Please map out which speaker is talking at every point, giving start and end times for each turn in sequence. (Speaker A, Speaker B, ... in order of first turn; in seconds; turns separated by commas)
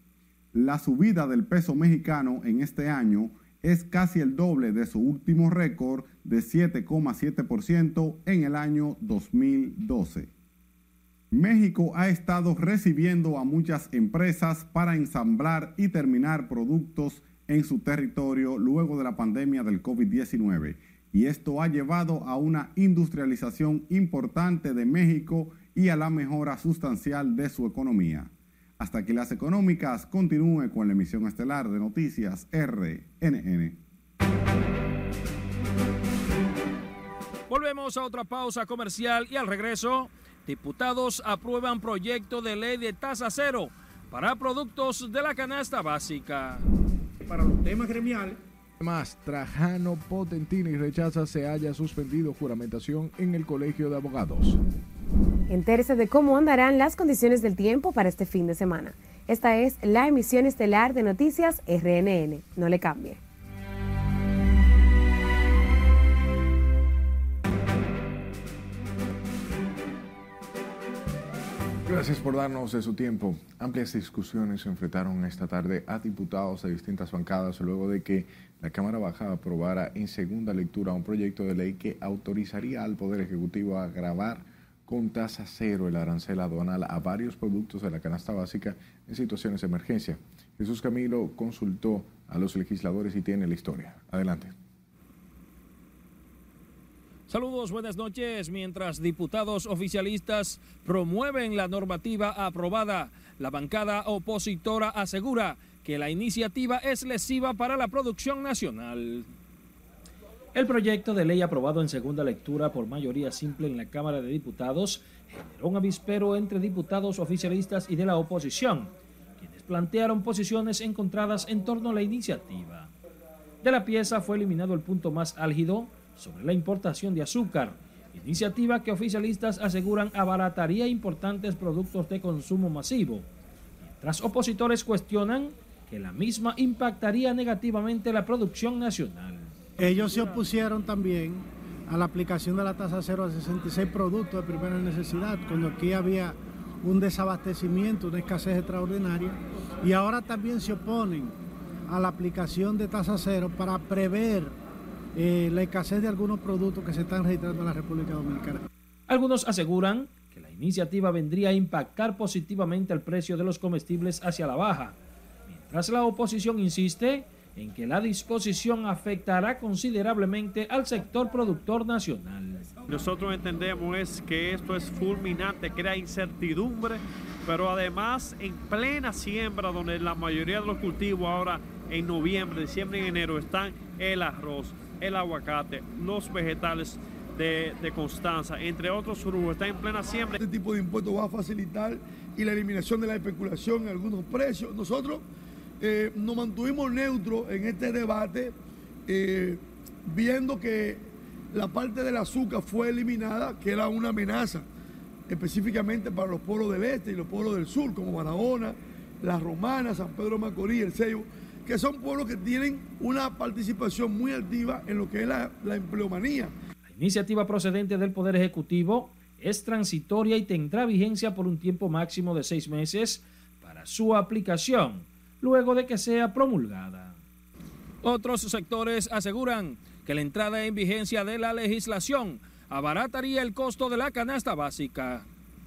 Speaker A: 0.5-10.3, Speaker A: 11.3-33.8, Speaker B: 37.5-46.6, Speaker C: 48.8-54.6, Speaker D: 55.5-63.2, Speaker C: 71.9-94.5, Speaker B: 97.3-109.3, Speaker B: 110.5-122.9, Speaker B: 123.6-133.3, Speaker B: 133.8-139.5, Speaker E: 139.8-151.4, Speaker E: 151.9-154.5, Speaker E: 155.2-158.6, Speaker B: 159.1-165.0, Speaker B: 165.5-172.7, Speaker F: 172.9-190.4, Speaker G: 190.4-195.2, Speaker G: 195.8-198.5, Speaker G: 199.1-204.7, Speaker G: 205.3-216.5, Speaker B: 216.9-227.2, Speaker B: 228.0-235.3